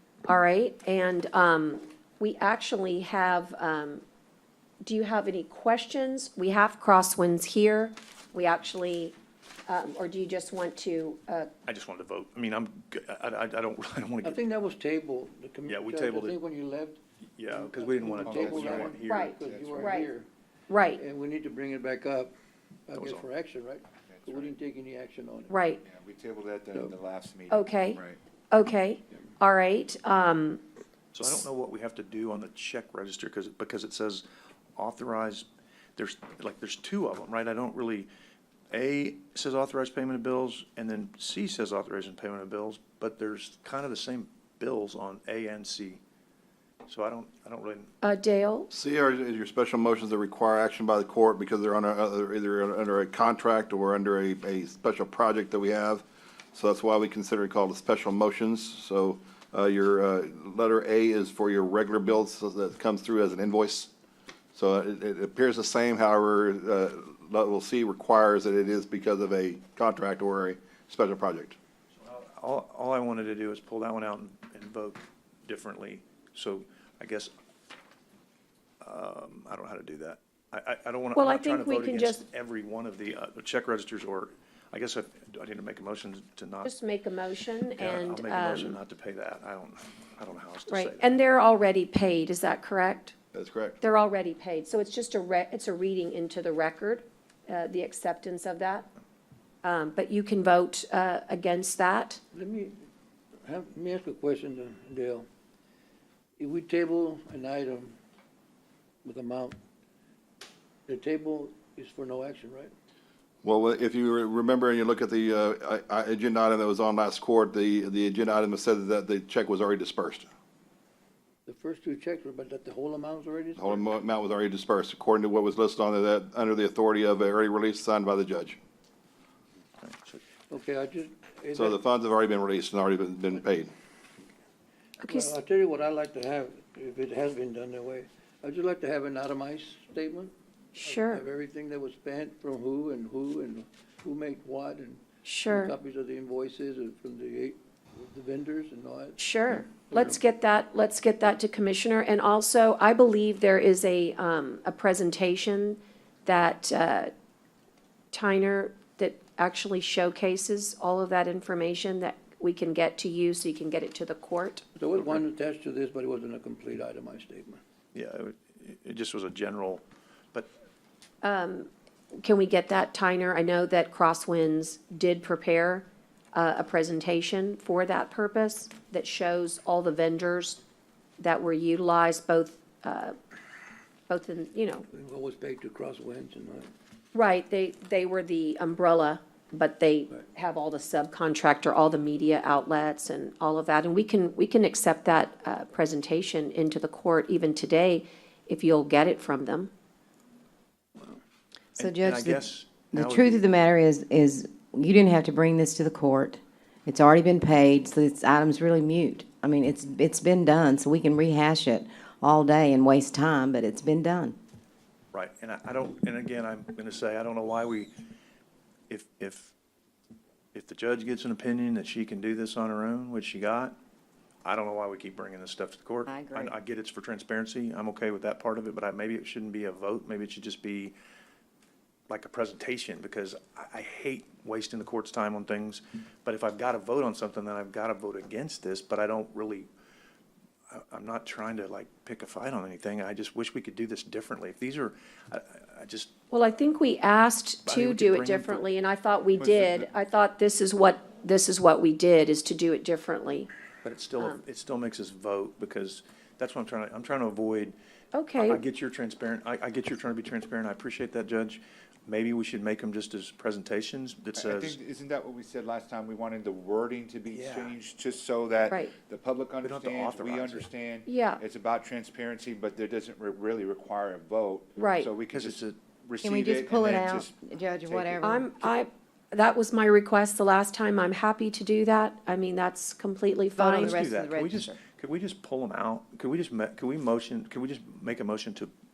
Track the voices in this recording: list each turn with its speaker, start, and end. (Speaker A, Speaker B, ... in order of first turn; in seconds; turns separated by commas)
Speaker A: 0.2-4.0, Speaker A: 4.8-9.1, Speaker A: 9.7-11.5, Speaker B: 11.7-14.4, Speaker C: 14.2-20.3, Speaker B: 15.7-16.4, Speaker B: 17.4-19.8, Speaker D: 18.2-20.0, Speaker A: 19.1-20.1, Speaker A: 20.7-21.0, Speaker C: 20.9-22.3, Speaker C: 22.9-25.6, Speaker B: 22.9-23.2, Speaker D: 24.0-24.6, Speaker A: 25.5-25.8, Speaker D: 25.8-28.2, Speaker A: 27.5-28.0, Speaker A: 28.5-30.6, Speaker B: 31.1-34.2, Speaker B: 34.8-35.5, Speaker B: 36.0-38.1, Speaker B: 38.7-46.0, Speaker B: 46.9-47.9, Speaker A: 48.0-48.7, Speaker E: 48.7-63.9, Speaker E: 64.5-71.5, Speaker B: 72.0-77.3, Speaker B: 78.8-86.7, Speaker A: 81.1-82.2, Speaker A: 86.6-88.8, Speaker B: 87.8-91.1, Speaker A: 90.7-93.1, Speaker E: 93.3-93.8, Speaker A: 93.8-98.9, Speaker A: 99.6-102.2, Speaker C: 102.3-102.8, Speaker C: 103.5-105.2, Speaker C: 106.4-107.9, Speaker C: 109.0-109.5, Speaker C: 110.9-112.7, Speaker E: 113.4-120.3, Speaker C: 121.5-123.8, Speaker E: 123.6-128.6, Speaker B: 129.8-130.2, Speaker C: 130.5-131.8, Speaker E: 131.5-133.7, Speaker A: 135.0-135.3, Speaker C: 135.1-150.2, Speaker A: 140.7-141.2, Speaker A: 145.2-145.7, Speaker A: 149.2-157.1, Speaker A: 158.1-164.6, Speaker C: 164.8-167.6, Speaker B: 167.9-170.5, Speaker A: 171.2-171.7, Speaker A: 172.2-180.6, Speaker A: 181.2-183.1, Speaker A: 184.1-184.8, Speaker C: 184.9-186.7, Speaker A: 187.1-199.7, Speaker B: 201.8-203.5, Speaker F: 201.8-214.3, Speaker B: 215.1-217.9, Speaker B: 218.9-219.5, Speaker B: 220.5-223.7, Speaker B: 224.4-230.9, Speaker F: 226.1-226.5, Speaker B: 232.1-239.7, Speaker B: 240.7-246.1, Speaker A: 246.3-253.5, Speaker B: 247.7-248.7, Speaker D: 249.4-249.9, Speaker B: 253.8-257.7, Speaker A: 258.1-258.6, Speaker B: 258.4-264.8, Speaker D: 264.4-277.3, Speaker B: 267.3-267.8, Speaker A: 268.7-268.9, Speaker B: 269.6-270.7, Speaker A: 271.1-271.4, Speaker A: 274.8-275.1, Speaker B: 275.3-275.8, Speaker F: 276.2-278.5, Speaker D: 277.9-278.3, Speaker A: 278.2-284.0, Speaker F: 283.5-284.8, Speaker B: 283.7-288.7